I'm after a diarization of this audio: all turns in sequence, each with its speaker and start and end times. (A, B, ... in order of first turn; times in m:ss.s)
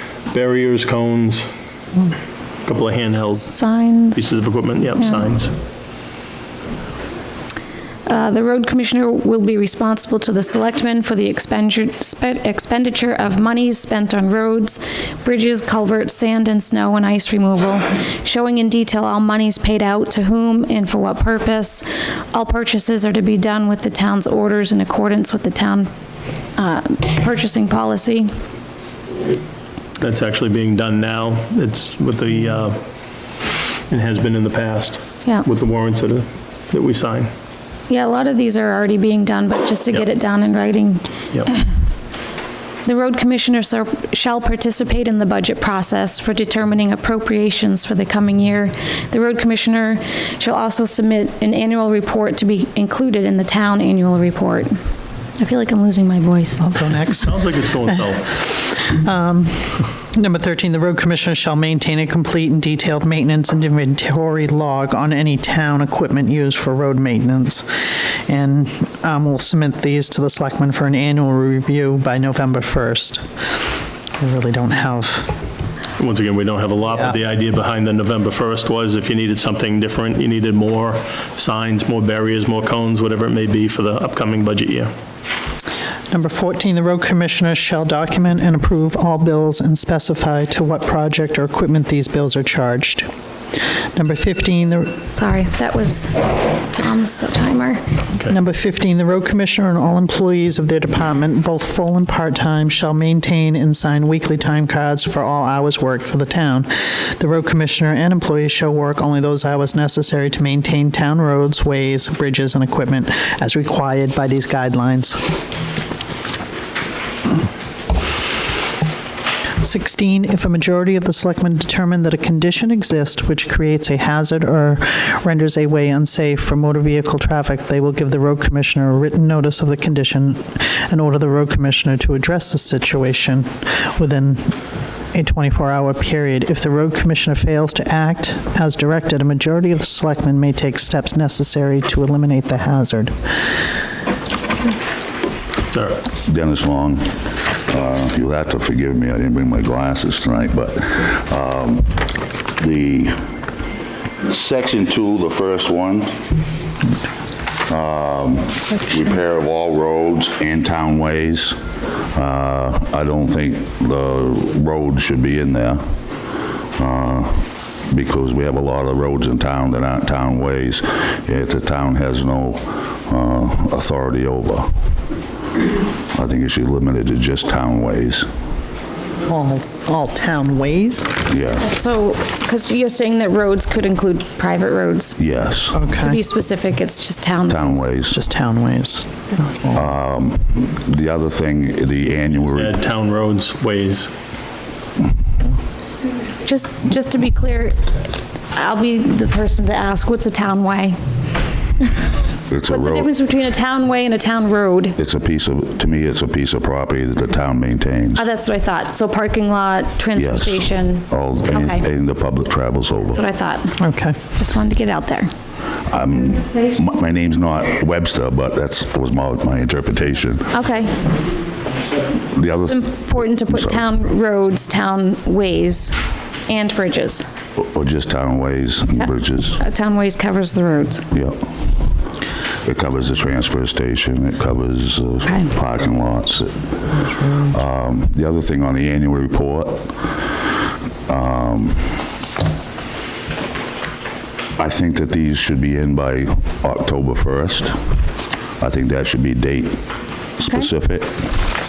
0:00.3-0:01.5 A
0:02.6-0:03.5 A
0:03.4-0:04.2 B
0:04.1-0:05.5 A
0:08.1-0:25.9 B
0:26.6-0:28.3 B
0:30.0-0:32.8 A
0:33.9-0:37.3 A
0:37.9-0:41.6 B
0:42.8-0:54.8 B
0:55.4-0:56.6 B
0:56.6-0:57.4 C
0:57.1-0:58.4 A
0:58.5-1:13.2 C
1:14.2-1:15.3 C
1:16.0-1:24.9 A
1:26.1-1:33.1 C
1:33.9-1:35.0 C
1:35.1-1:37.8 B
1:38.3-1:55.2 C
1:59.6-2:14.5 C
2:15.1-2:23.4 C
2:25.7-2:26.0 A
2:26.2-2:31.9 D
2:32.6-2:33.2 D
2:34.2-2:36.2 D
2:37.7-2:41.6 D
2:42.1-2:45.8 D
2:46.8-2:54.7 D
2:56.1-2:58.3 D
2:59.3-3:01.1 C
3:01.3-3:01.6 D
3:01.6-3:05.2 B
3:05.2-3:05.8 D
3:05.7-3:06.2 C
3:05.9-3:07.9 B
3:07.5-3:08.2 D
3:08.1-3:09.9 C
3:09.7-3:12.7 D
3:12.4-3:14.1 A
3:16.4-3:17.8 B
3:18.5-3:21.0 B
3:22.5-3:23.1 D
3:22.7-3:25.0 B
3:25.0-3:28.2 D
3:28.1-3:31.8 B
3:30.1-3:33.2 D
3:33.1-3:33.8 B
3:33.8-3:34.2 C
3:34.3-3:35.3 B
3:35.9-3:40.5 D
3:40.5-3:41.0 B
3:42.3-3:43.8 D
3:42.6-3:46.0 B
3:46.5-3:47.2 B
3:47.6-3:49.6 D
3:49.6-3:51.0 B
3:51.1-3:51.4 D
3:52.6-3:56.6 D
3:55.2-3:55.5 B
3:56.9-3:57.5 C
3:57.5-4:00.1 D
4:01.1-4:02.0 D
4:04.6-4:07.8 D
4:08.6-4:09.8 D
4:10.4-4:11.5 D